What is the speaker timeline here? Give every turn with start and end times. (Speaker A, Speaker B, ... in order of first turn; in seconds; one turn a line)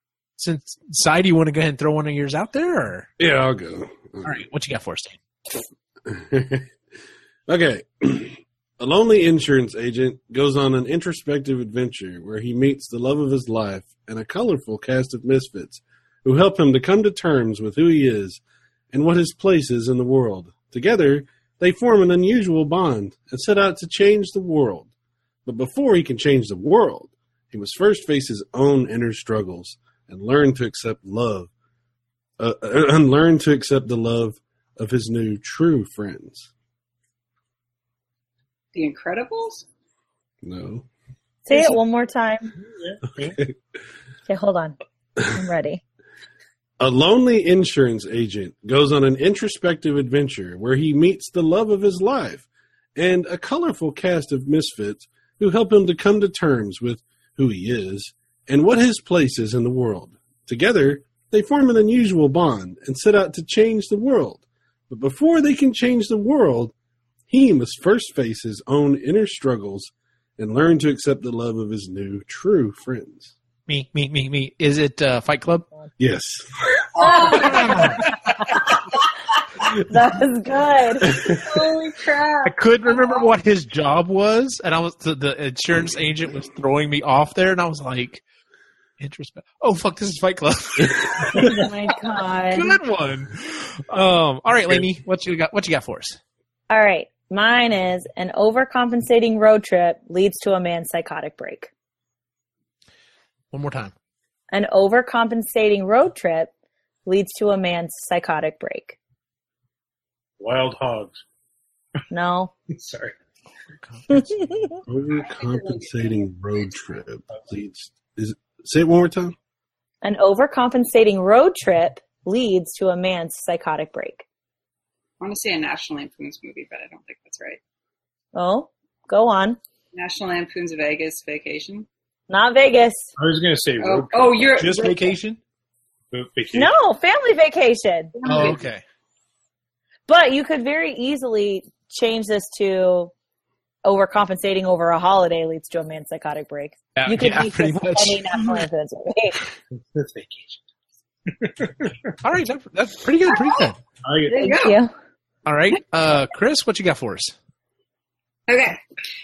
Speaker A: 0.4-3.1
Speaker B: 3.2-4.4
Speaker A: 4.2-5.2
Speaker B: 6.1-6.7
Speaker B: 7.5-18.4
Speaker B: 18.9-24.9
Speaker B: 25.5-31.5
Speaker B: 32.4-36.5
Speaker C: 38.7-39.6
Speaker B: 40.4-40.9
Speaker D: 41.5-42.6
Speaker E: 42.7-43.4
Speaker D: 44.3-44.8
Speaker D: 45.3-45.8
Speaker B: 46.8-66.7
Speaker B: 67.3-73.3
Speaker A: 73.7-75.7
Speaker B: 76.0-76.5
Speaker C: 77.0-78.0
Speaker A: 77.4-78.0
Speaker D: 79.9-81.2
Speaker C: 81.2-83.3
Speaker A: 82.5-88.2
Speaker A: 89.0-91.5
Speaker D: 91.3-92.8
Speaker A: 92.5-96.2
Speaker D: 96.7-101.7
Speaker A: 103.5-103.9
Speaker D: 104.5-106.5
Speaker D: 107.1-109.0
Speaker E: 110.4-111.2
Speaker D: 112.1-112.5
Speaker E: 112.7-113.2
Speaker A: 113.8-114.5
Speaker D: 114.1-114.7
Speaker B: 114.9-119.3
Speaker C: 115.2-116.3
Speaker D: 120.0-124.2
Speaker C: 125.2-127.6
Speaker D: 128.3-129.6
Speaker C: 129.9-131.9
Speaker D: 132.3-133.1
Speaker E: 133.2-134.8
Speaker C: 133.8-135.2
Speaker A: 134.6-135.4
Speaker E: 136.1-136.7
Speaker D: 136.5-138.2
Speaker C: 138.2-138.6
Speaker A: 138.2-138.8
Speaker D: 140.1-143.1
Speaker D: 143.8-149.4
Speaker A: 147.0-148.6
Speaker E: 149.9-150.6
Speaker E: 151.3-152.1
Speaker A: 152.2-153.8
Speaker C: 153.3-153.7
Speaker E: 154.0-154.5
Speaker C: 154.3-154.8
Speaker D: 154.3-154.9
Speaker A: 155.5-157.3
Speaker C: 158.5-158.8